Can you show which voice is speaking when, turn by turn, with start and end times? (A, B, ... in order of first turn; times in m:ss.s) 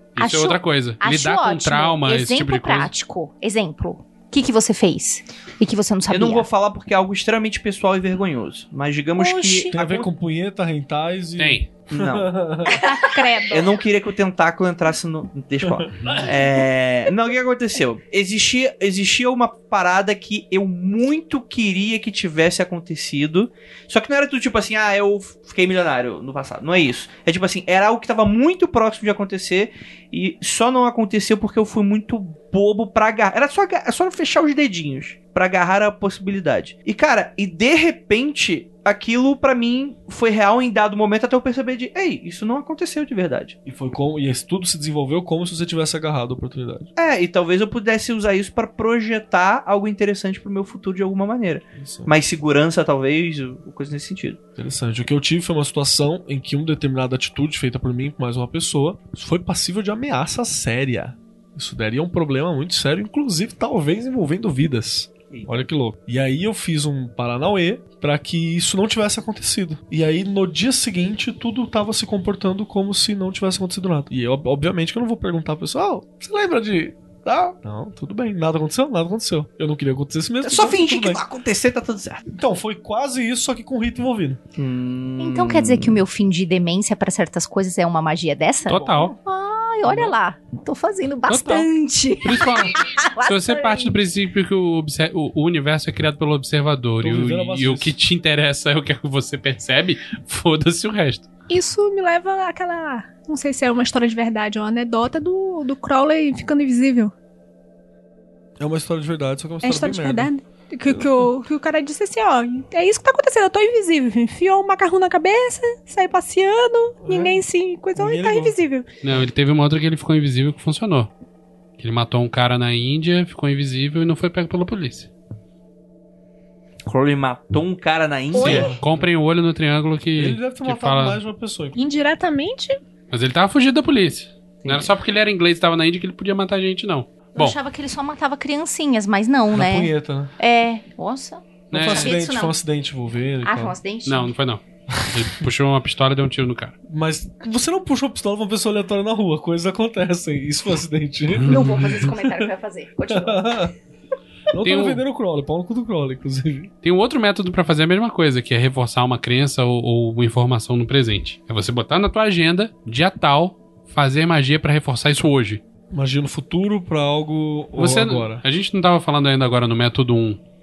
0:00.2-0:02.9 A
0:00.2-0:06.5 B
0:06.1-0:10.1 C
0:09.2-0:09.7 D
0:09.7-0:12.8 E
0:11.4-0:11.7 A
0:11.9-0:12.4 C
0:12.7-0:13.8 D
0:13.5-0:43.6 C
0:15.7-0:16.2 E
0:43.6-0:46.9 E
0:47.0-0:54.4 C
0:51.8-0:52.1 E
0:54.6-1:21.2 E
1:05.3-1:05.6 C
1:20.4-1:22.2 C
1:22.3-1:24.4 E
1:24.6-1:26.0 C
1:25.2-1:34.0 B
1:28.6-1:29.2 A
1:28.7-1:29.1 E
1:31.3-1:31.7 A
1:32.2-1:41.3 A
1:37.0-1:37.9 E
1:41.5-1:47.1 D
1:48.6-1:50.3 E
1:49.6-1:58.9 D
1:50.9-1:51.3 E
1:57.0-1:57.4 E
1:58.0-1:58.6 E
1:59.0-2:01.1 A
2:01.8-2:05.1 A
2:06.9-2:08.7 C
2:08.3-2:11.2 A
2:08.4-2:09.1 E
2:10.2-2:11.8 E
2:11.8-2:12.7 D
2:13.1-2:17.6 A
2:14.6-2:14.9 C
2:17.3-2:22.6 B
2:19.5-2:20.3 E
2:21.7-2:22.2 A
2:21.7-2:23.8 E
2:23.4-2:24.3 B
2:24.0-2:26.8 A
2:24.9-2:25.2 E
2:26.9-2:32.5 E
2:31.4-2:33.7 B
2:33.1-2:33.7 E
2:34.5-2:36.7 E
2:34.6-2:35.0 A
2:36.8-2:45.6 A
2:45.9-2:48.4 E
2:47.8-2:50.4 A